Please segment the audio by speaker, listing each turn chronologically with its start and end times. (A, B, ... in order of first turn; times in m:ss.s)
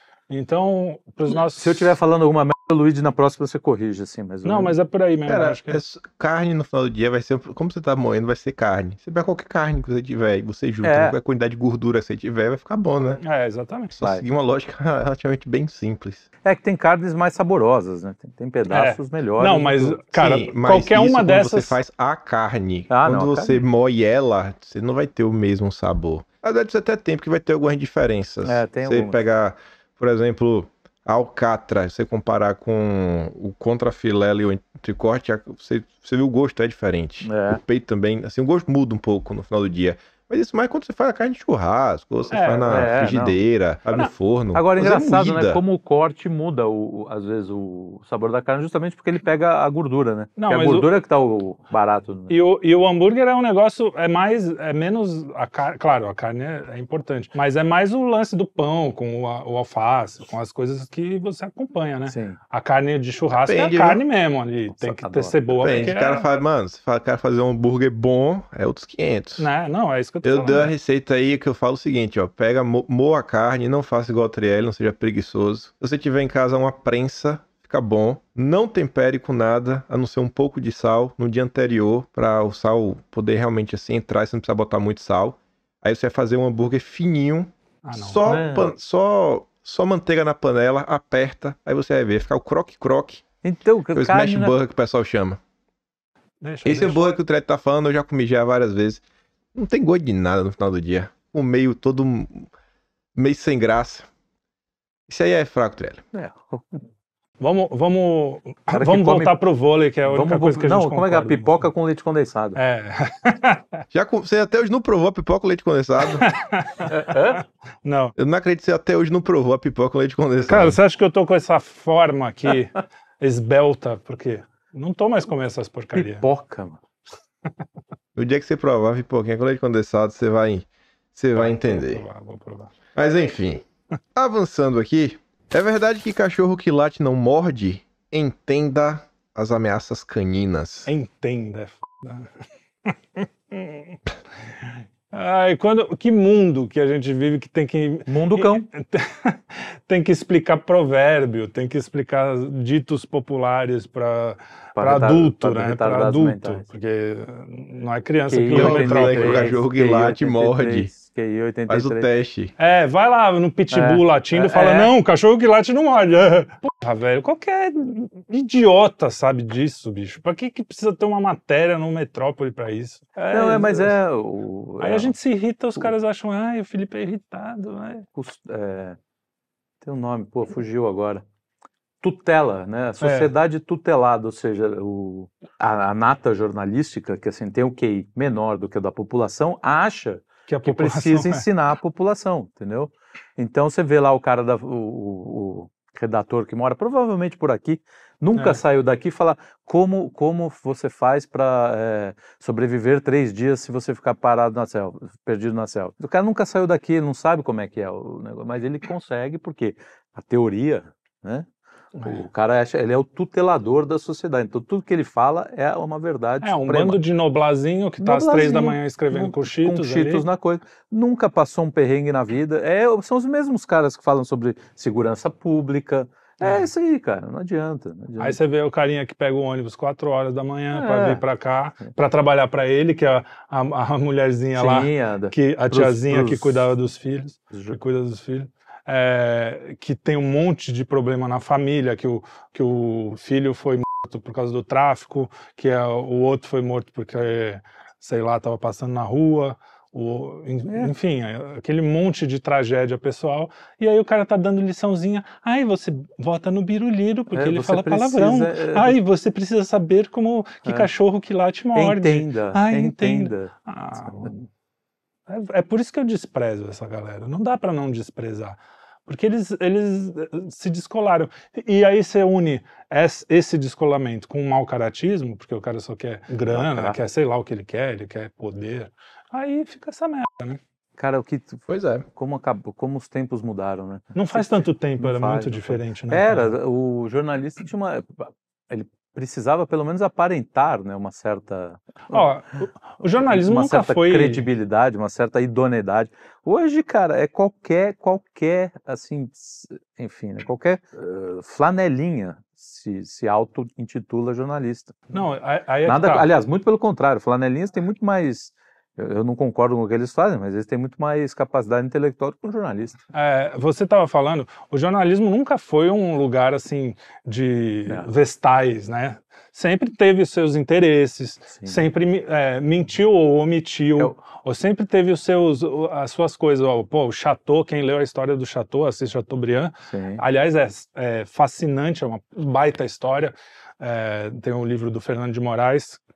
0:00.3-0:02.0 A
0:01.3-0:04.8 B
0:04.4-0:05.8 A
0:05.3-0:13.2 C
0:10.8-0:11.2 B
0:13.2-0:13.9 A
0:13.9-0:16.2 C
0:16.4-0:20.0 B
0:18.7-0:21.8 A
0:20.1-0:45.6 C
0:22.9-0:23.6 B
0:28.4-0:29.2 B
0:37.2-0:37.6 B
0:42.3-0:42.9 A
0:42.7-0:43.4 B
0:44.5-0:52.4 B
0:50.4-0:50.9 A
0:52.3-1:06.3 A
1:02.1-1:02.4 B
1:03.3-1:04.0 C
1:04.8-1:05.8 B
1:05.6-1:09.5 C
1:09.4-1:10.7 A
1:10.2-1:33.2 C
1:27.8-1:28.2 A
1:28.2-1:28.7 B
1:33.4-1:34.6 B
1:33.9-1:35.4 C
1:36.4-1:37.2 A
1:36.6-1:39.0 C
1:39.5-1:42.5 C
1:43.2-1:44.1 C
1:45.1-1:46.0 C
1:46.1-1:46.8 B
1:47.4-1:51.6 A
1:48.7-1:49.4 B
1:50.0-1:52.6 B
1:52.6-1:53.8 A
1:53.9-1:56.3 C
1:56.2-1:58.2 A
1:56.9-1:57.4 B
1:58.2-2:00.8 C
2:00.5-2:06.3 A
2:06.0-2:06.8 B
2:08.2-2:12.0 C
2:11.4-2:12.7 A
2:13.0-2:13.6 C
2:14.2-2:20.9 C
2:20.9-2:22.3 A
2:22.9-2:24.0 A
2:25.1-2:39.5 A
2:28.1-2:28.7 B
2:34.8-2:36.6 B
2:38.3-2:42.1 B
2:38.5-2:40.9 C
2:41.7-2:42.5 C
2:42.6-2:54.0 A
2:43.7-2:44.9 B
2:53.3-2:55.1 B
2:54.8-2:58.1 A
2:58.2-2:59.0 B
2:59.8-3:01.2 B
3:02.0-3:31.5 B
3:03.0-3:03.3 A
3:10.5-3:11.5 A
3:18.4-3:18.6 A
3:32.0-3:32.2 A
3:32.0-3:37.0 B
3:36.4-3:40.3 A
3:38.0-3:48.4 B
3:46.4-3:46.7 A
3:48.2-4:24.4 A
3:50.7-3:51.2 B
3:54.6-3:56.7 B
3:57.5-3:57.8 B
4:17.3-4:19.0 B
4:21.8-4:23.5 B
4:25.3-4:40.6 A
4:36.5-4:37.0 B
4:41.0-4:52.3 B
4:41.7-4:42.1 C
4:44.2-4:46.5 A
4:52.1-4:54.5 A
4:53.1-5:05.0 B
5:05.1-5:06.3 A
5:05.8-5:13.0 B
5:13.1-5:36.0 A
5:21.6-5:21.8 B
5:29.9-5:30.2 B